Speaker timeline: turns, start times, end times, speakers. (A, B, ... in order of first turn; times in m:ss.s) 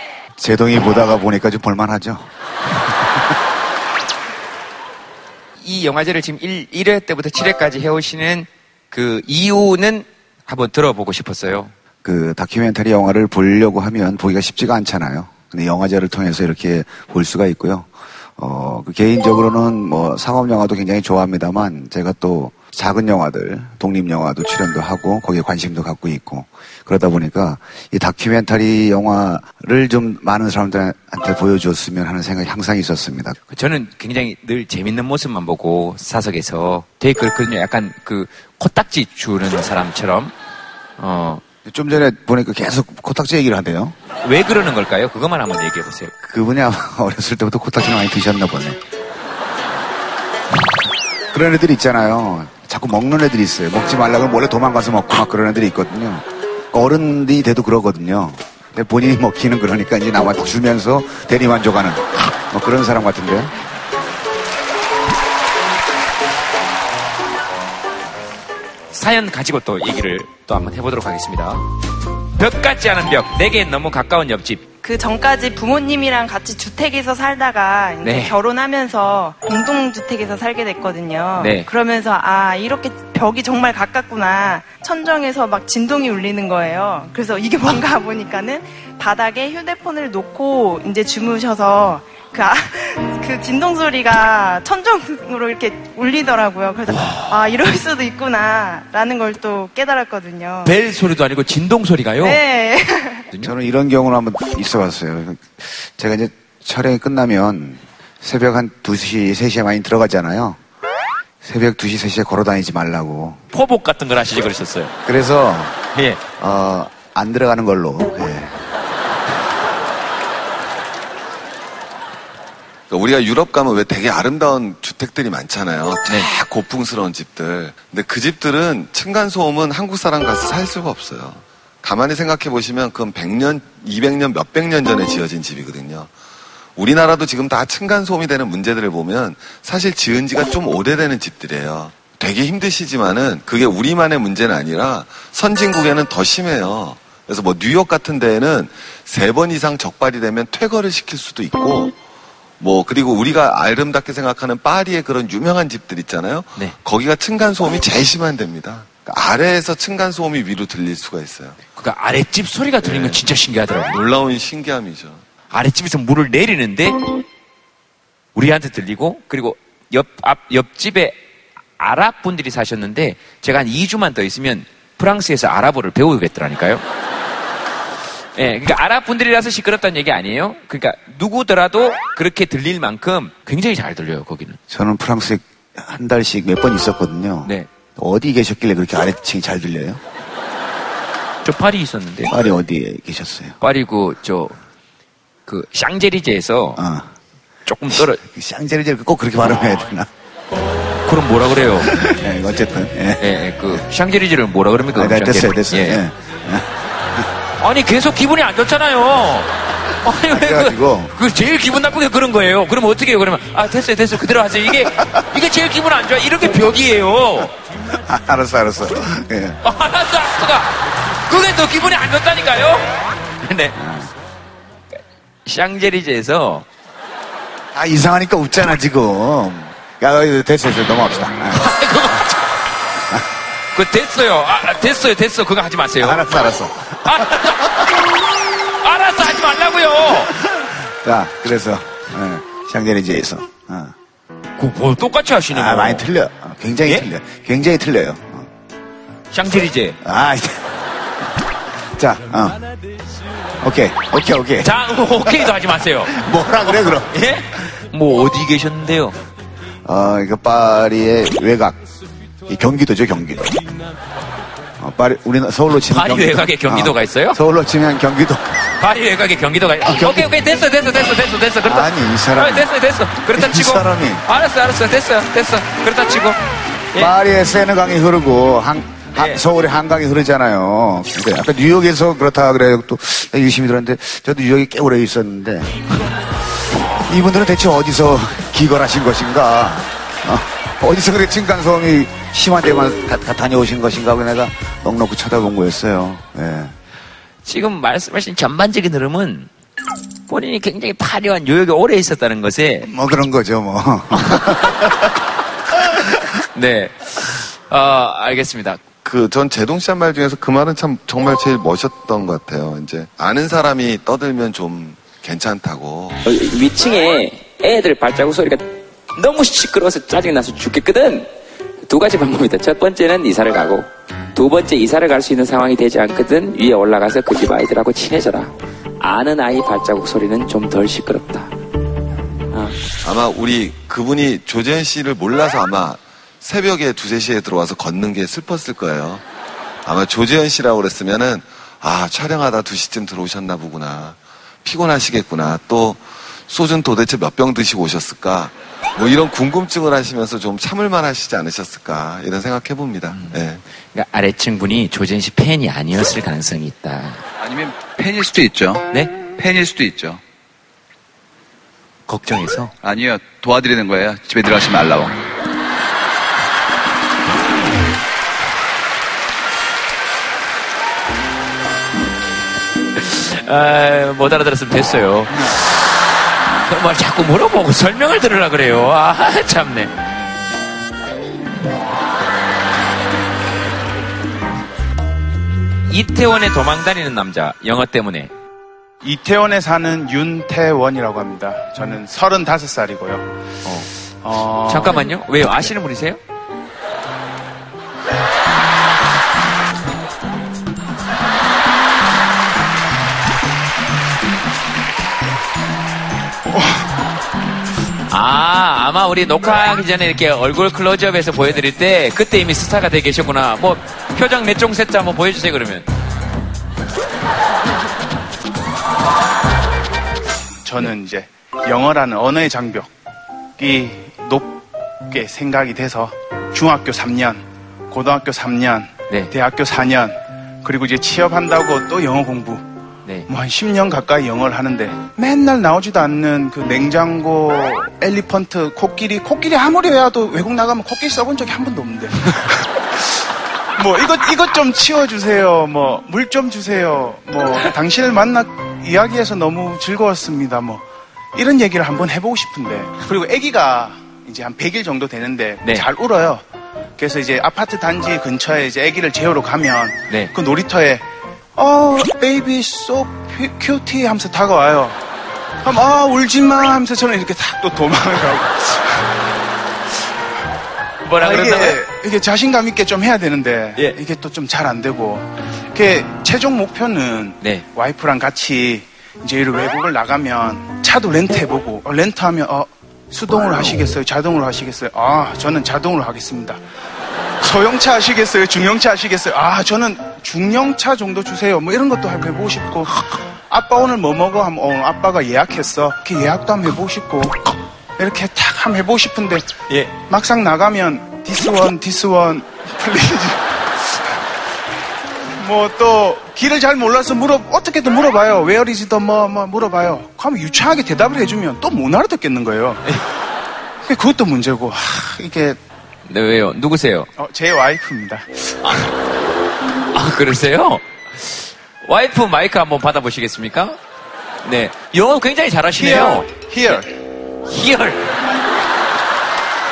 0:00.4-0:02.3 A
0:05.6-0:11.7 B
0:12.0-0:33.4 A
0:33.5-0:40.3 B
0:41.0-0:41.4 B
0:41.7-0:44.0 A
0:44.2-0:46.1 B
0:46.2-0:48.8 A
0:51.3-1:03.5 A
1:08.9-1:11.6 B
1:12.4-1:14.6 B
1:14.8-1:40.8 C
1:18.0-1:18.4 B
1:21.4-1:21.7 B
1:36.8-1:37.4 B
1:40.6-1:42.4 B
1:42.2-1:43.3 C
1:43.4-1:50.6 A
1:51.4-1:53.4 A
1:53.5-1:55.0 B
1:55.0-1:55.8 A
1:55.9-1:56.2 B
1:56.4-1:58.5 A
2:02.9-2:16.1 D
2:16.8-2:32.0 D
2:32.6-2:41.6 D
2:41.8-2:44.0 B
2:42.8-2:43.2 D
2:43.9-2:45.2 D
2:45.5-2:47.0 B
2:48.4-2:51.2 B
2:51.8-2:56.8 B
2:58.4-3:04.6 B
3:04.7-3:10.0 A
3:11.4-3:12.3 B
3:12.3-3:13.6 A
3:13.6-3:14.6 B
3:15.5-3:16.8 B
3:16.8-3:17.1 A
3:17.7-3:18.2 B
3:17.9-3:20.1 A
3:21.0-3:22.0 B
3:21.9-3:23.2 A
3:23.2-3:26.0 B
3:25.0-3:27.3 A
3:27.6-3:29.5 B
3:30.0-3:37.5 B
3:30.3-3:31.1 A
3:38.0-3:39.6 A
3:39.6-3:43.8 B
3:43.8-3:44.1 A
3:45.5-3:46.7 B
3:47.7-3:51.7 A
3:51.5-3:52.4 B
3:53.8-3:56.2 B
3:56.0-3:57.6 A
3:57.0-3:57.9 B
3:58.8-4:00.3 B
4:00.3-4:03.9 A
4:04.6-4:06.1 B
4:05.5-4:08.5 A
4:06.9-4:07.1 B
4:09.3-4:10.0 B
4:10.0-4:10.7 A
4:12.0-4:12.6 A
4:13.6-4:15.5 A
4:14.6-4:16.2 B
4:16.1-4:17.1 A
4:16.8-4:19.2 B
4:19.8-4:21.8 A
4:22.5-4:23.7 A
4:24.8-4:28.4 A
4:25.9-4:27.4 B
4:28.8-4:36.4 B
4:29.8-4:30.3 A
4:31.7-4:32.7 A
4:33.3-4:34.2 A
4:37.0-4:45.8 A
4:39.1-4:39.4 B
4:47.0-4:56.7 A
4:57.4-4:59.5 B
5:00.3-5:02.9 B
5:02.9-5:05.0 A
5:06.5-5:08.8 B
5:09.0-5:16.2 D
5:16.2-5:21.3 B
5:21.8-5:31.5 B
5:32.5-5:32.8 B
5:33.0-5:39.2 D
5:39.8-5:53.6 D
5:53.1-5:57.2 B
5:57.4-6:00.2 E
6:02.1-6:02.7 B
6:02.8-6:05.2 E
6:13.0-6:15.9 B
6:16.6-6:20.0 B
6:25.9-6:28.3 B
6:29.0-6:33.3 F
6:33.6-6:33.9 B
6:34.2-6:35.7 F
6:34.7-6:36.2 B
6:46.5-6:46.8 F
6:48.1-6:55.9 B
7:00.6-7:02.9 F
7:03.6-7:12.6 F
7:13.3-7:23.2 F
7:23.8-7:30.8 F
7:31.3-7:36.4 F
7:37.0-7:41.0 F
7:41.6-7:45.0 F
7:45.6-7:49.1 F
7:51.1-7:51.8 B
7:51.2-8:06.6 F
7:57.4-7:57.6 B
8:07.4-8:17.4 F
8:18.0-8:23.6 F
8:19.7-8:19.9 B
8:25.4-8:32.9 F
8:33.8-8:35.6 F
8:36.1-8:37.1 B
8:37.2-8:38.9 F
8:39.9-8:43.8 B
8:44.4-8:46.9 B
8:45.8-8:46.9 F
8:47.5-8:48.1 B